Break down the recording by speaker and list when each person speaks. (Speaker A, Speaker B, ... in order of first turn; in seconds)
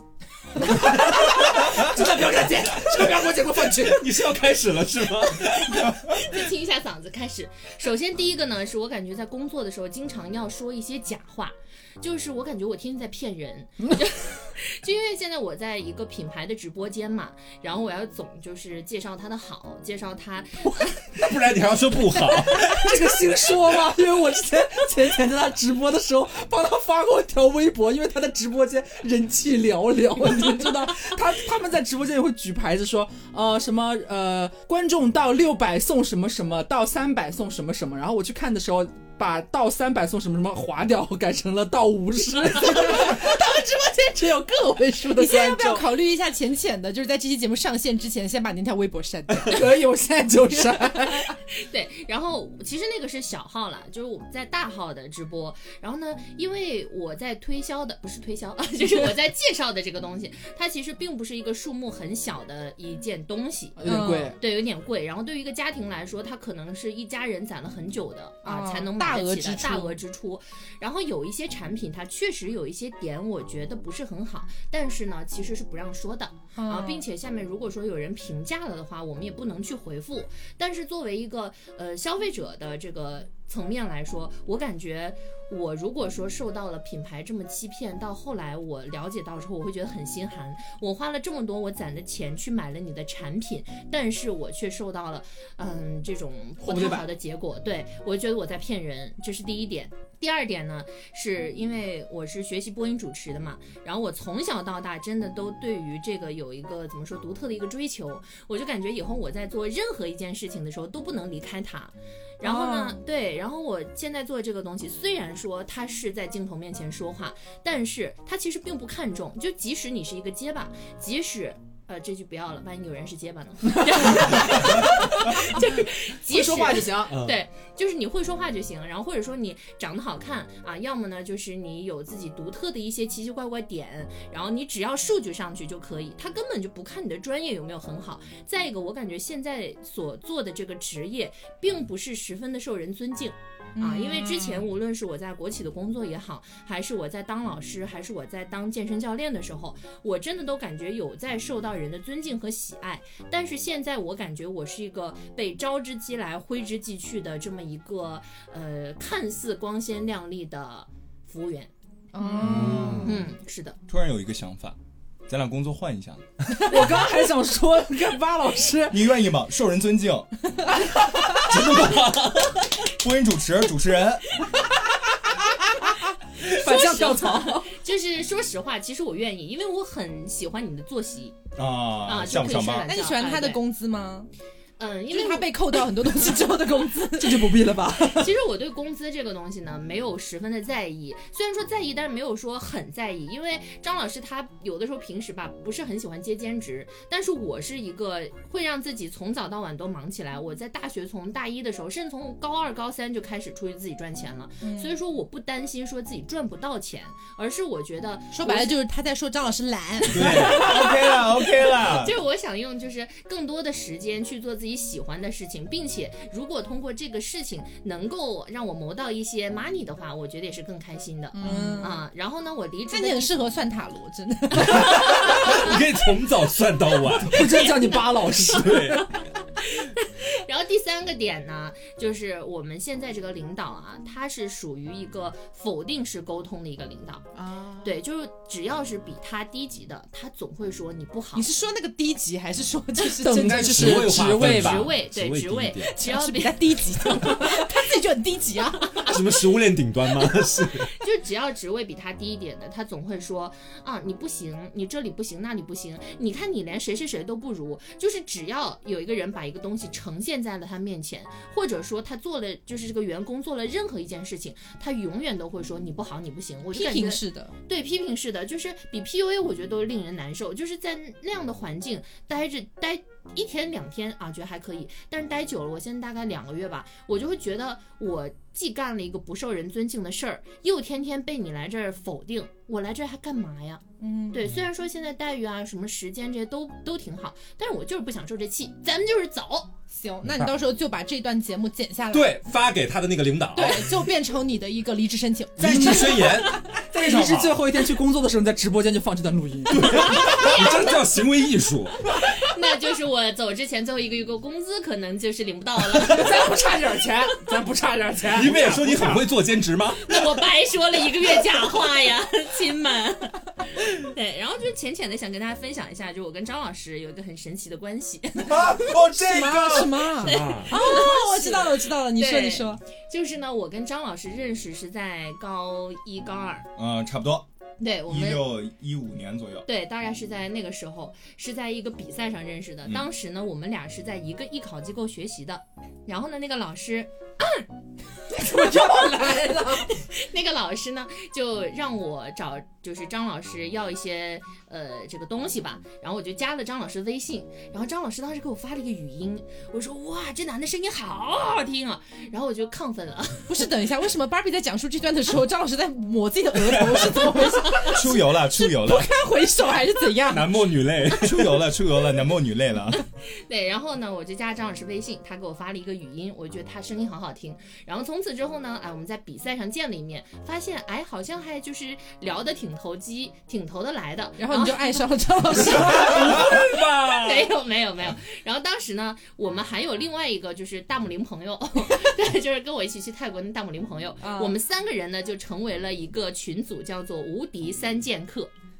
Speaker A: 0.6-4.1, 22.2-45.8, 49.4-51.4, 63.8-64.4, 96.6-97.1, 126.2-127.2, 162.5-163.0, 166.7-169.1, 176.4-177.7, 187.2-188.3, 221.3-221.8, 227.1-229.0, 237.3-237.9, 243.2-244.9, 295.6-300.7, 305.9-309.3, 338.3-339.9
Speaker B: 3.7-5.9, 21.1-22.9, 127.1-127.4, 162.4-163.2, 171.3-172.7, 210.1-210.7, 224.6-227.7, 228.4-229.1, 243.3-245.9, 249.1-250.9, 290.2-290.5, 292.1-293.9, 295.6-296.6, 299.7-302.0, 308.3-310.1, 318.9-320.7, 360.3-361.6, 375.8-377.5
Speaker C: 5.7-20.9, 51.3-161.7, 163.0-163.8, 176.4-181.4, 182.0-183.6, 184.8-185.8, 188.0-208.7, 210.5-210.9, 211.6-223.3, 229.6-237.2, 237.8-241.5, 244.3-247.9, 250.8-289.7, 300.3-300.8, 302.2-306.6, 310.0-319.0, 320.2-326.7, 327.8-328.4, 329.6-337.6, 339.9-353.6, 357.6-357.9, 363.3-375.1, 376.5-388.5
Speaker D: 45.1-49.6, 63.8-64.3, 68.4-70.0, 76.5-77.0, 112.4-113.0, 143.8-144.7, 162.1-163.1, 182.8-184.3, 185.1-187.5, 204.6-204.9, 208.3-210.5, 221.4-222.0, 222.9-225.4, 241.3-244.0, 245.9-249.2, 266.7-267.5, 284.0-284.4, 289.9-292.4, 293.5-296.3, 319.2-322.8, 353.5-360.6, 374.4-376.4, 384.2-384.6
Speaker E: 163.9-164.8, 165.3-166.2, 168.9-170.3, 172.8-174.3, 181.5-182.9, 210.1-212.1, 297.0-297.5, 318.5-320.0, 326.8-327.5, 328.1-329.7, 357.8-359.1, 361.1-363.1